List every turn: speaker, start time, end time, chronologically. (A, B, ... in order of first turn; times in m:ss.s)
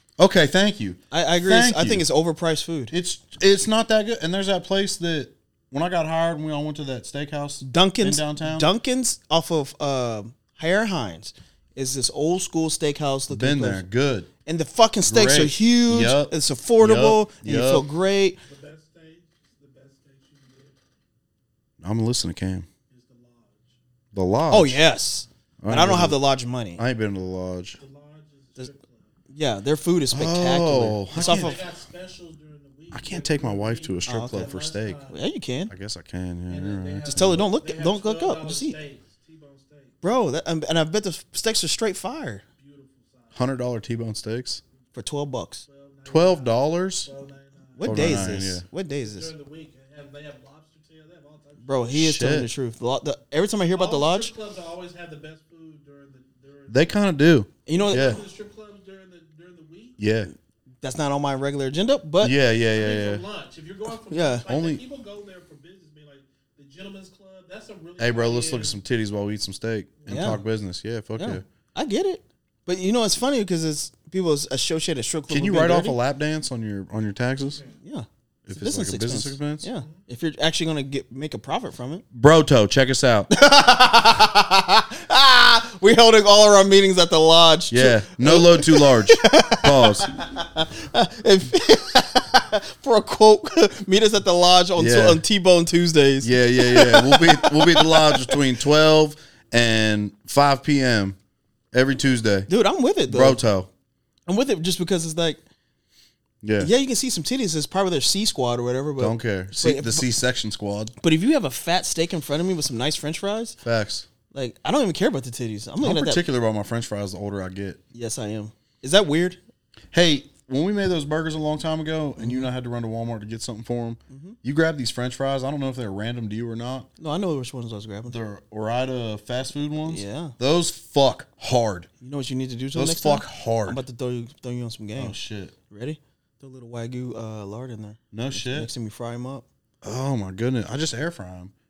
0:00.2-0:02.0 A
0:01.1-0:02.9 B
0:02.9-0:08.7 A
0:07.6-0:13.8 B
0:13.3-0:14.3 A
0:14.4-0:18.4 B
0:15.1-0:17.9 A
0:18.5-0:20.8 C
0:21.8-0:22.7 A
0:22.9-0:23.6 C
0:24.1-0:24.8 A
0:24.5-0:26.8 B
0:25.6-0:26.2 A
0:26.8-0:27.8 A
0:27.8-0:29.0 C
0:29.3-0:31.6 B
0:30.1-0:31.7 A
0:31.2-0:35.1 C
0:32.9-0:35.1 A
0:34.1-0:35.7 B
0:35.7-0:37.4 A
0:36.5-0:40.0 C
0:37.0-0:38.8 B
0:40.0-0:42.4 B
0:42.6-0:43.3 C
0:43.3-0:44.6 A
0:44.9-0:45.6 B
0:45.7-0:48.4 C
0:46.1-0:47.1 A
0:47.8-0:49.3 B
0:47.8-0:48.6 A
0:49.1-0:51.8 C
0:51.6-0:54.3 B
0:51.9-0:52.5 A
0:53.8-0:56.8 C
0:56.7-0:58.2 A
0:57.7-0:58.2 B
0:57.7-1:00.0 C
1:00.0-1:00.3 A
1:00.8-1:02.4 B
1:02.2-1:03.2 A
1:02.7-1:08.8 C
1:03.9-1:04.5 B
1:04.5-1:04.8 A
1:08.0-1:11.4 A
1:10.0-1:10.4 C
1:10.1-1:10.4 B
1:11.2-1:16.0 B
1:15.3-1:17.6 A
1:17.8-1:22.0 B
1:18.5-1:19.7 A
1:22.1-1:23.3 A
1:23.3-1:38.4 B
1:27.7-1:30.1 A
1:34.8-1:35.2 A
1:36.2-1:41.2 A
1:41.7-1:42.5 A
1:42.5-1:43.4 B
1:43.1-1:43.7 A
1:44.3-1:45.4 B
1:46.4-1:46.7 A
1:46.6-1:50.1 B
1:49.0-1:51.0 A
1:51.0-1:53.6 B
1:53.6-1:54.1 A
1:54.3-1:56.2 B
1:55.8-1:57.8 A
1:57.9-1:59.4 B
1:59.9-2:06.9 A
2:02.2-2:02.5 B
2:04.1-2:04.4 B
2:07.0-2:08.2 B
2:08.1-2:11.9 A
2:09.9-2:10.4 B
2:12.0-2:15.2 B
2:12.8-2:13.8 A
2:15.0-2:15.6 A
2:15.7-2:19.5 B
2:18.1-2:18.7 A
2:19.8-2:21.5 A